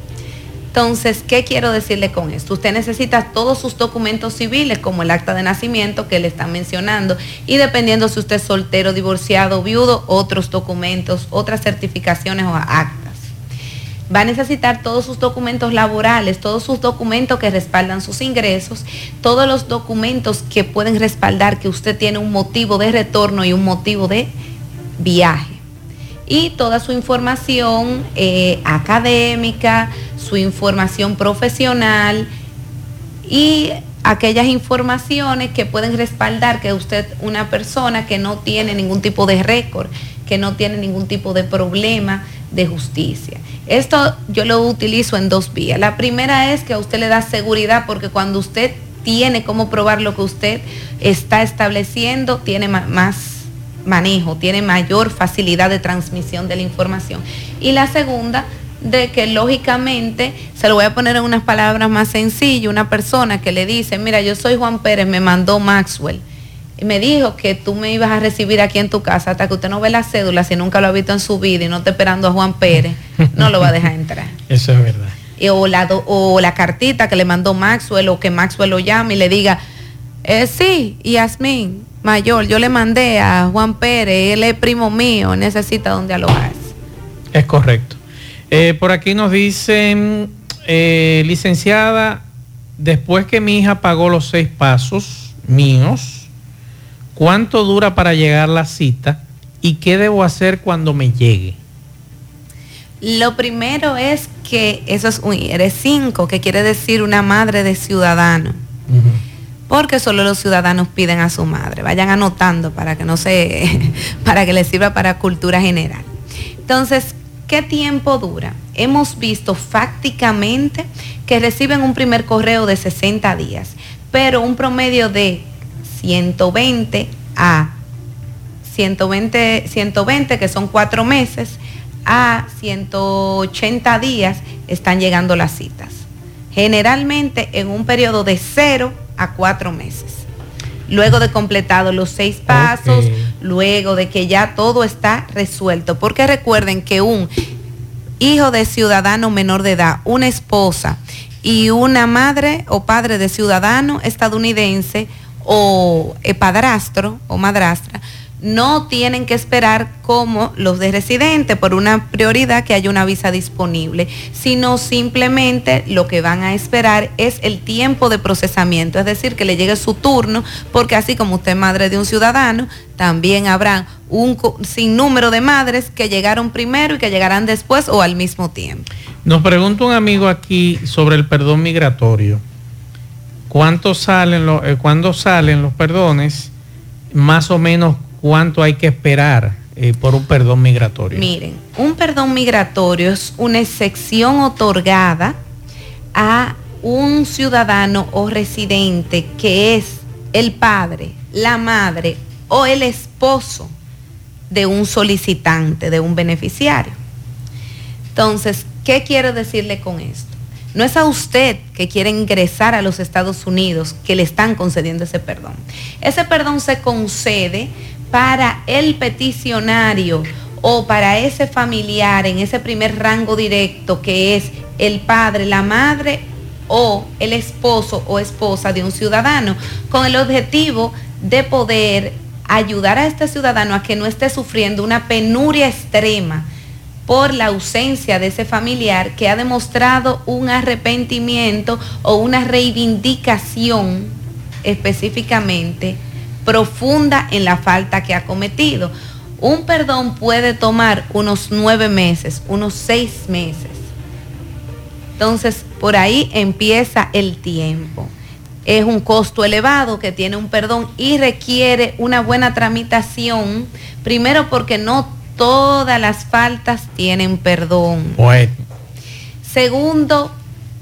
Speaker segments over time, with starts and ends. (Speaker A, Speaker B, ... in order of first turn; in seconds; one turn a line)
Speaker A: 0.7-13.2
Speaker A: 14.1-24.3
Speaker A: 25.0-25.6
Speaker A: 26.3-32.3
Speaker A: 33.2-66.2
Speaker A: 66.8-74.3
Speaker B: 73.4-73.7
Speaker B: 74.5-75.2
Speaker A: 75.4-79.6
Speaker A: 80.2-86.7
Speaker B: 87.3-88.0
Speaker B: 88.5-92.2
Speaker B: 92.8-96.3
Speaker B: 97.1-101.6
Speaker A: 103.0-108.6
Speaker B: 108.9-109.2
Speaker A: 109.7-116.1
Speaker A: 116.7-127.7
Speaker A: 128.6-140.2
Speaker A: 140.9-147.3
Speaker B: 142.5-143.3
Speaker A: 148.2-178.9
Speaker B: 179.2-182.4
Speaker B: 183.5-186.5
Speaker B: 187.1-191.2
Speaker A: 191.1-195.4
Speaker A: 196.1-203.7
Speaker A: 204.5-206.9
Speaker A: 208.1-236.5
Speaker A: 237.1-253.8
Speaker A: 255.2-258.1
Speaker A: 258.6-268.2
Speaker B: 268.1-268.6
Speaker A: 269.4-270.3